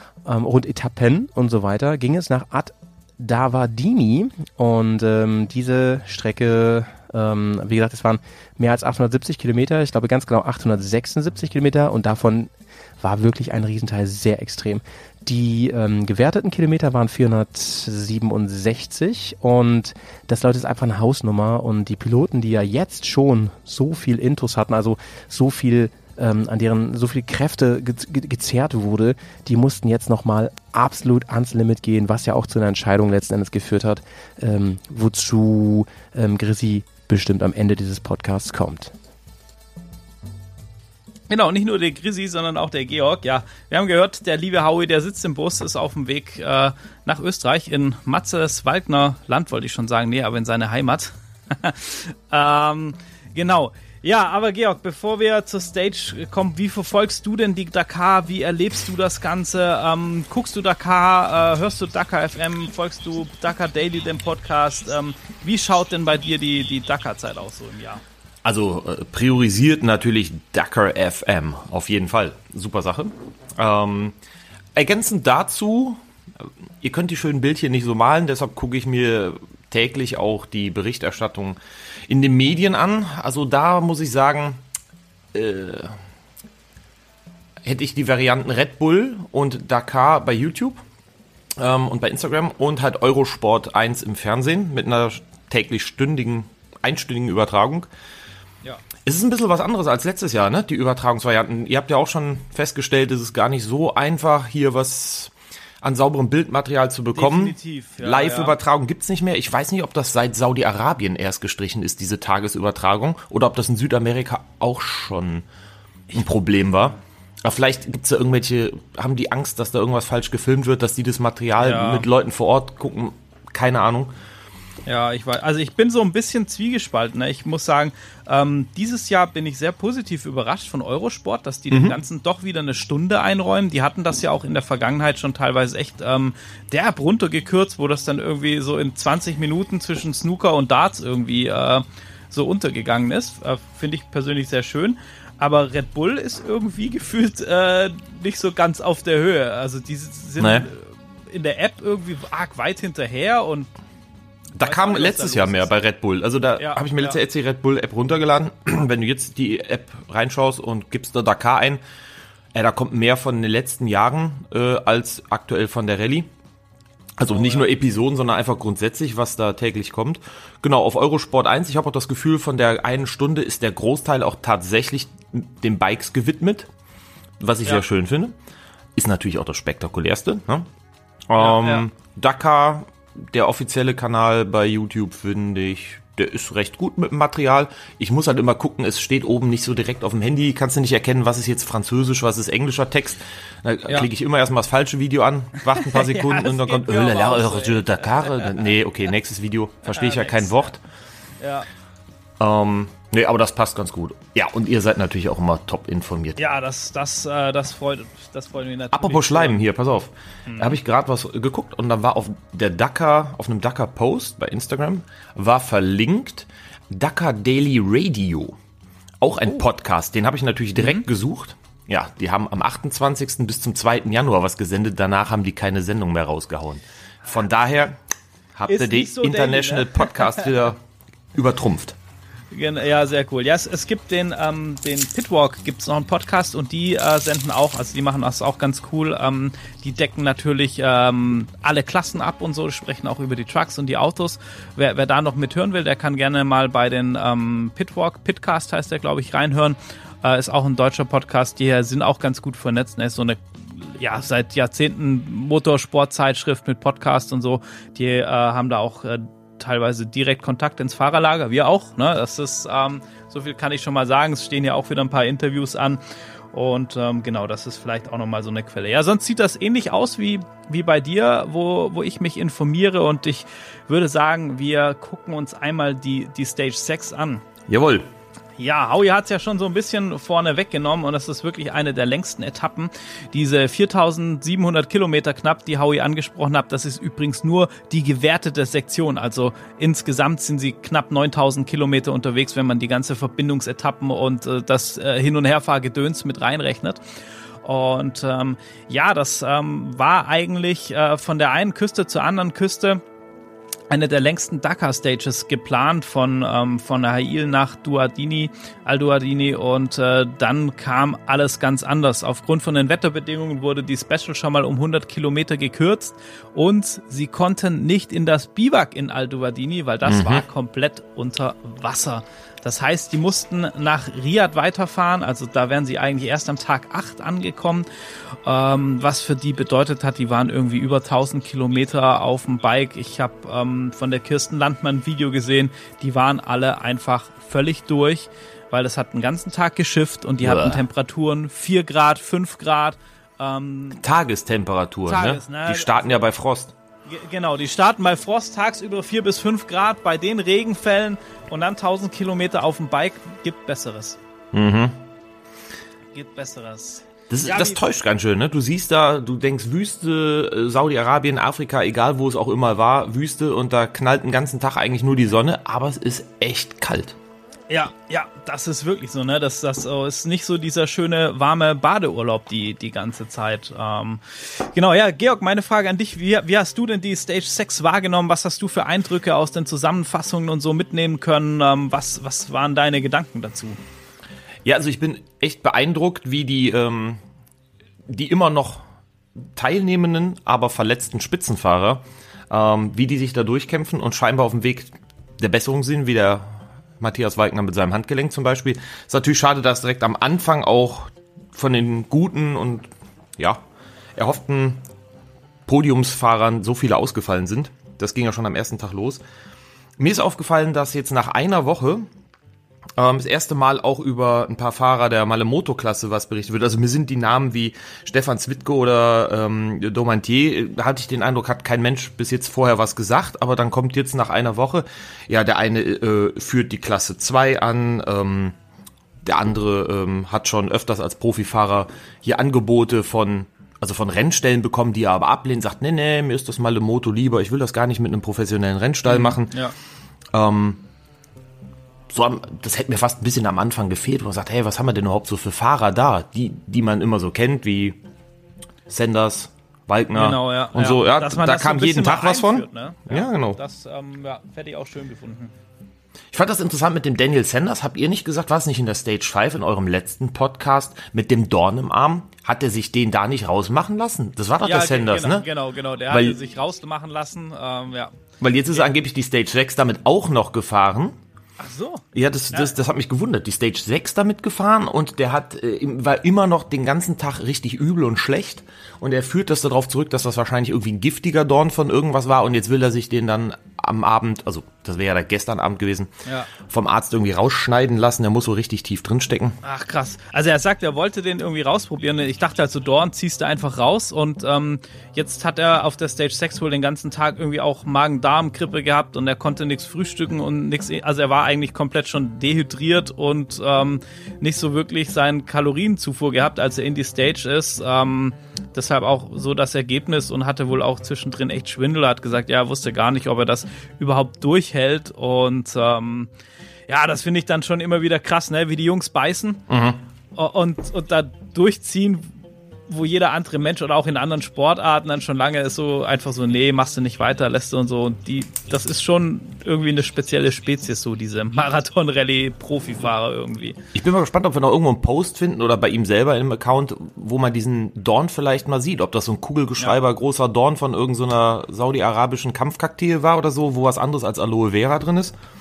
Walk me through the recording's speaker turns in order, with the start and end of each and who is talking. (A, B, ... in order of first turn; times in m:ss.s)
0:00.2-0:38.9 A
0:41.3-1:08.0 B
1:08.4-1:14.2 C
1:14.8-1:21.6 C
1:22.1-1:24.6 C
1:25.3-1:26.0 C
1:27.6-1:30.8 C
1:31.6-1:37.9 C
1:39.0-1:55.4 C
1:47.1-1:48.5 B
1:56.1-2:04.1 C
2:01.6-2:02.0 B
2:04.8-2:33.7 B
2:11.7-2:12.0 C
2:30.4-2:30.7 C
2:34.6-2:41.8 C
2:34.6-2:35.7 B
2:36.6-2:37.2 B
2:42.5-2:46.3 C
2:47.2-2:56.7 C
2:47.3-2:47.6 B
2:57.4-2:58.3 C
2:59.0-3:00.7 C
3:01.3-3:20.8 C
3:01.4-3:01.8 B
3:15.7-3:18.6 B
3:19.9-3:20.7 B
3:21.4-3:21.7 B
3:22.4-3:26.4 C
3:26.4-3:29.6 B
3:28.9-3:38.6 C
3:30.5-3:30.8 B
3:39.2-3:48.0 C
3:40.8-3:41.0 B
3:48.5-3:50.8 C
3:48.7-3:50.4 B
3:51.3-3:52.0 C
3:52.5-4:26.0 B
4:26.5-4:37.4 B
4:37.7-4:38.1 C
4:38.6-4:57.0 B
4:57.6-5:03.0 B
5:03.9-5:27.9 B
5:20.0-5:20.4 C
5:28.4-5:44.0 B
5:40.4-5:40.8 C
5:44.0-5:46.7 C
5:45.1-5:46.3 B
5:47.1-5:54.2 B
5:54.5-5:55.0 C
5:56.1-5:57.8 B
5:57.3-6:07.2 C
6:07.7-6:23.8 B
6:24.6-6:27.2 C
6:28.1-6:28.8 C
6:29.6-6:42.9 C
6:44.2-6:44.8 C
6:45.7-6:49.2 C
6:50.0-6:52.1 C
6:53.0-7:08.5 C
7:09.2-7:19.6 C
7:19.1-7:19.7 B
7:20.3-7:20.8 C
7:22.1-7:28.0 C
7:28.9-7:33.6 C
7:30.1-7:35.5 B
7:36.3-7:45.5 C
7:44.6-7:48.1 B
7:46.1-7:46.4 C
7:48.4-7:51.2 C
7:51.6-7:52.7 B
7:52.1-8:06.1 C
8:06.2-8:06.5 B
8:06.6-8:09.6 C
8:09.6-8:36.3 B
8:36.9-8:39.6 B
8:39.7-8:40.0 C
8:40.4-8:42.4 B
8:42.9-8:53.8 B
8:53.9-9:05.3 C